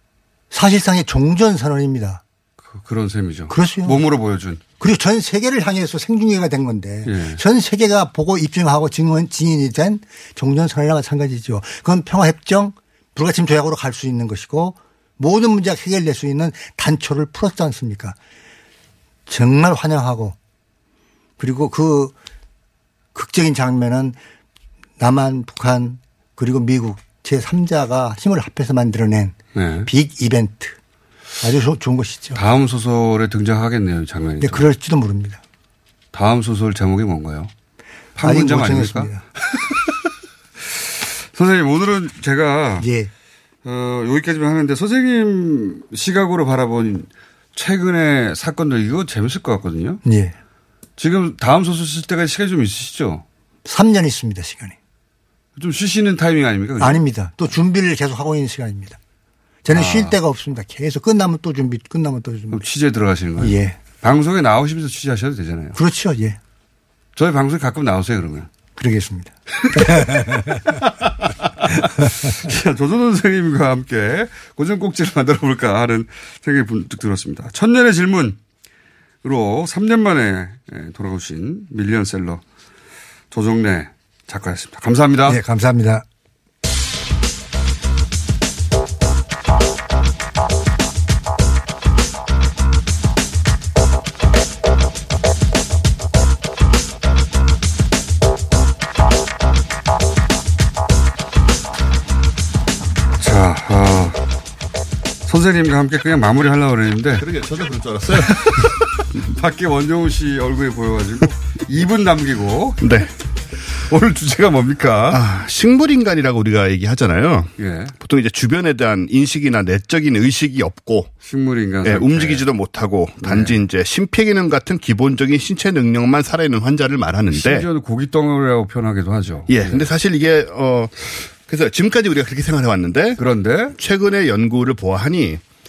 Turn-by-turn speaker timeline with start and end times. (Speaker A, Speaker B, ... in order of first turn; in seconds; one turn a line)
Speaker A: 0.5-2.2
Speaker B: 2.6-4.6
Speaker A: 3.5-4.1
Speaker A: 4.8-18.2
Speaker B: 7.1-7.4
Speaker A: 19.3-20.4
Speaker A: 21.4-22.1
Speaker A: 23.1-24.2
Speaker A: 25.0-30.8
Speaker B: 29.6-29.9
Speaker A: 31.4-32.4
Speaker B: 32.4-34.7
Speaker A: 34.4-35.4
Speaker B: 36.1-37.5
Speaker B: 38.2-39.9
Speaker A: 38.2-39.2
Speaker B: 40.6-42.9
Speaker A: 42.8-43.1
Speaker B: 43.6-50.0
Speaker A: 50.0-50.4
Speaker B: 51.0-53.2
Speaker A: 53.6-54.8
Speaker B: 55.6-57.0
Speaker A: 56.8-59.0
Speaker A: 59.6-62.6
Speaker B: 59.7-60.2
Speaker B: 62.5-65.8
Speaker A: 63.4-63.8
Speaker A: 65.8-66.4
Speaker B: 67.2-68.5
Speaker A: 68.8-70.8
Speaker B: 69.7-78.4
Speaker A: 71.8-72.3
Speaker B: 79.2-82.4
Speaker B: 83.3-85.4
Speaker A: 85.3-86.0
Speaker B: 103.2-104.2
Speaker B: 105.3-107.3
Speaker C: 107.2-108.7
Speaker B: 108.1-113.1
Speaker C: 112.8-113.1
Speaker B: 113.7-115.2
Speaker C: 115.1-121.1
Speaker B: 117.6-118.0
Speaker B: 121.2-122.5
Speaker C: 121.8-127.7
Speaker B: 123.2-123.6
Speaker B: 127.3-129.9
Speaker C: 129.5-133.2
Speaker B: 133.2-133.8
Speaker C: 133.8-135.4